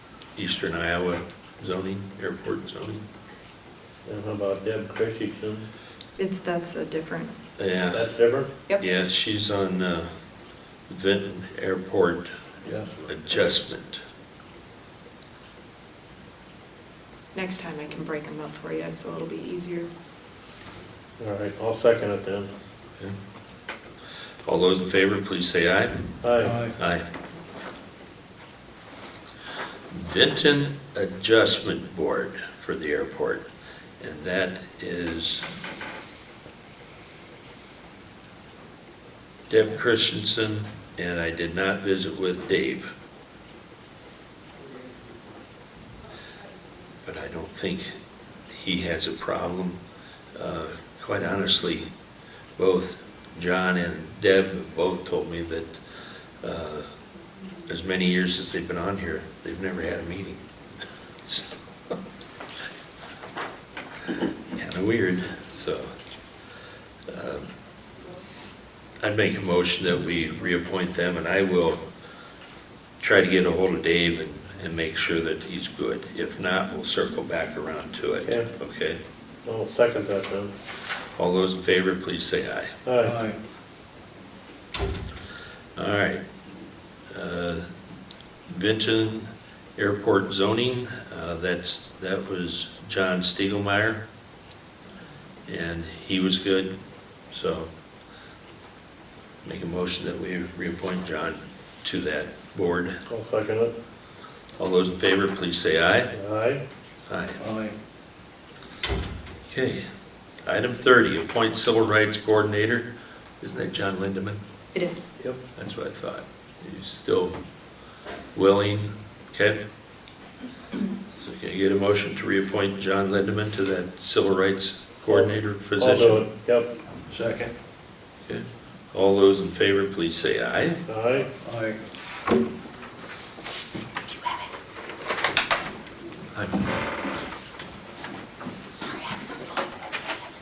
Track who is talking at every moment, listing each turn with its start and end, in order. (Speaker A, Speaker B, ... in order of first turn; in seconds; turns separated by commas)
Speaker A: 0.3-3.0, Speaker B: 4.1-5.7, Speaker C: 6.2-7.3, Speaker A: 7.6-8.2, Speaker B: 7.9-8.5, Speaker A: 8.8-10.1, Speaker A: 10.9-12.3, Speaker A: 13.0-14.0, Speaker C: 17.3-19.9, Speaker B: 21.2-22.5, Speaker A: 24.4-26.2, Speaker B: 26.2-26.5, Speaker D: 26.4-26.7, Speaker A: 26.8-27.1, Speaker A: 29.9-33.5, Speaker A: 34.0-35.5, Speaker A: 39.5-42.9, Speaker A: 47.0-49.8, Speaker A: 50.3-51.9, Speaker A: 52.6-55.8, Speaker A: 56.4-56.9, Speaker A: 57.7-60.4, Speaker A: 61.2-61.6, Speaker A: 64.5-65.9, Speaker A: 67.1-67.4, Speaker A: 69.0-71.8, Speaker A: 73.0-79.0, Speaker B: 78.2-78.5, Speaker B: 79.4-80.5, Speaker A: 81.2-82.8, Speaker B: 82.8-83.2, Speaker D: 83.0-83.4, Speaker A: 85.8-86.2, Speaker A: 87.1-87.6, Speaker A: 88.5-94.0, Speaker A: 95.5-96.7, Speaker A: 97.3-97.7, Speaker A: 99.4-103.0, Speaker B: 103.1-103.7, Speaker A: 104.6-106.1, Speaker B: 106.1-106.6, Speaker A: 107.1-107.4, Speaker D: 107.4-107.7, Speaker A: 109.5-109.8, Speaker A: 110.4-114.4, Speaker C: 114.7-115.0, Speaker A: 115.5-117.3, Speaker A: 118.3-119.6, Speaker A: 121.2-126.2, Speaker B: 125.1-126.7, Speaker D: 127.1-127.5, Speaker A: 128.2-130.8, Speaker B: 130.9-131.3, Speaker D: 131.2-131.8, Speaker A: 136.3-136.6, Speaker C: 138.7-139.6